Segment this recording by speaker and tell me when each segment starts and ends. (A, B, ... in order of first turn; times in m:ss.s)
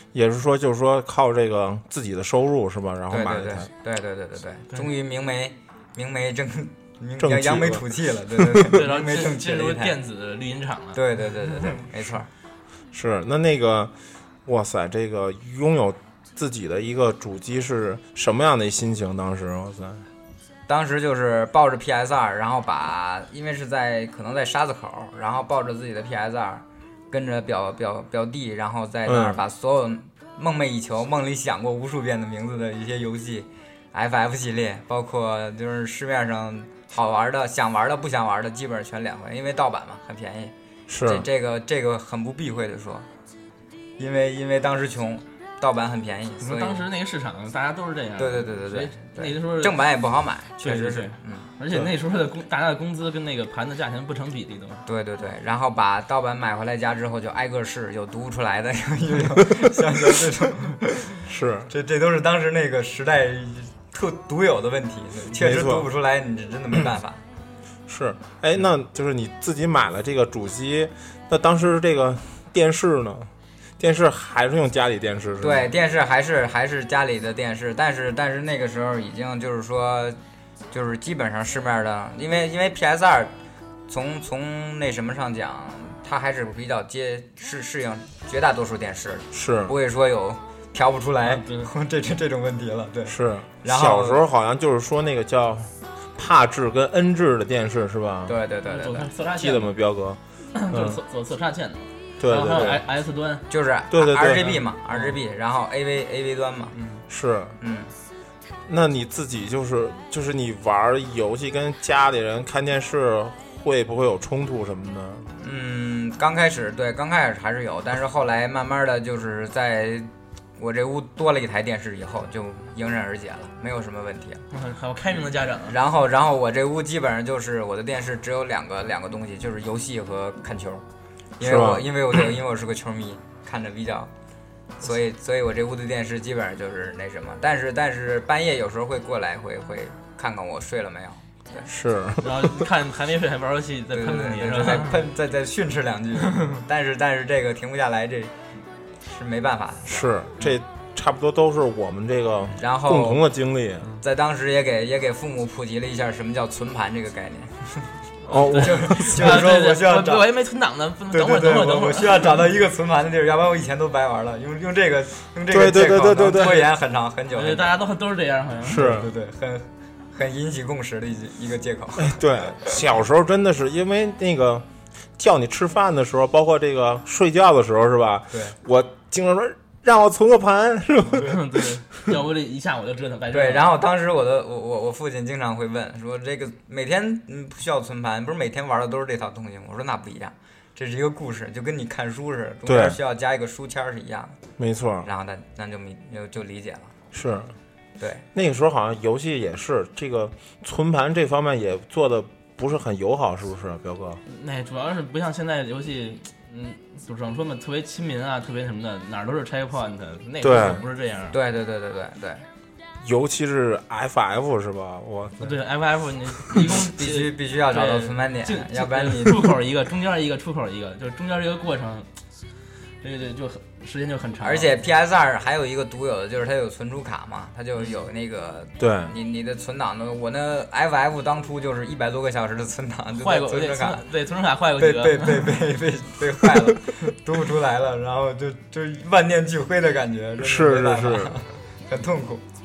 0:00.1-0:03.7 A
0:03.1-0:10.0 B
0:07.2-0:08.7 A
0:08.7-0:11.0 C
0:11.0-0:12.3 B
0:12.9-0:13.9 A
0:14.4-0:20.1 A
0:20.7-0:43.1 B
0:29.1-0:29.4 A
0:40.9-0:41.3 A
0:44.0-0:46.9 B
0:46.4-0:49.8 C
0:48.2-0:51.5 B
0:50.6-0:54.8 C
0:54.9-1:07.2 B
1:01.3-1:01.7 A
1:05.4-1:05.9 A
1:07.9-1:15.7 A
1:15.4-1:20.2 B
1:20.7-1:23.3 B
1:23.9-1:34.2 B
1:29.3-1:29.7 A
1:31.2-1:31.7 C
1:33.1-1:38.4 A
1:38.3-1:39.1 B
1:38.7-1:39.7 C
1:39.3-1:40.2 A
1:40.5-1:43.5 C
1:40.7-1:41.0 A
1:42.2-1:42.8 A
1:43.5-1:46.8 B
1:43.9-1:44.6 A
1:44.9-1:45.2 C
1:46.8-1:47.0 C
1:47.1-1:47.6 A
1:47.6-1:47.9 B
1:48.7-1:55.3 A
1:55.4-2:04.4 B
2:04.5-2:05.8 C
2:05.7-2:10.8 B
2:11.4-2:14.1 B
2:11.4-2:11.9 A
2:14.8-2:21.7 B
2:21.7-2:22.6 A
2:22.2-2:25.0 C
2:23.9-2:28.3 B
2:26.3-2:26.6 C
2:29.0-2:30.6 B
2:29.9-2:33.9 A
2:32.5-2:33.2 B
2:34.0-2:37.9 B
2:38.3-2:39.3 A
2:38.4-2:42.3 C
2:38.6-2:40.2 B
2:41.1-2:47.8 B
2:45.5-2:46.6 A
2:47.3-2:48.9 C
2:48.6-2:49.1 A
2:48.7-2:52.8 B
2:52.0-2:54.7 A
2:55.2-3:01.8 A
3:01.1-3:03.7 C
3:03.3-3:14.4 B
3:12.7-3:13.0 A
3:14.6-3:15.1 A
3:15.0-3:17.0 B
3:17.1-3:17.6 A
3:18.0-3:18.2 B
3:18.3-3:24.2 A
3:24.3-3:31.4 C
3:30.4-3:30.8 A
3:31.3-3:32.4 B
3:33.0-3:35.6 A
3:35.4-3:42.1 C
3:36.6-3:39.5 B
3:43.0-3:44.8 C
3:44.4-3:54.0 B
3:48.8-3:49.1 A
3:53.2-3:55.6 C
3:54.8-4:02.4 B
4:00.4-4:01.4 A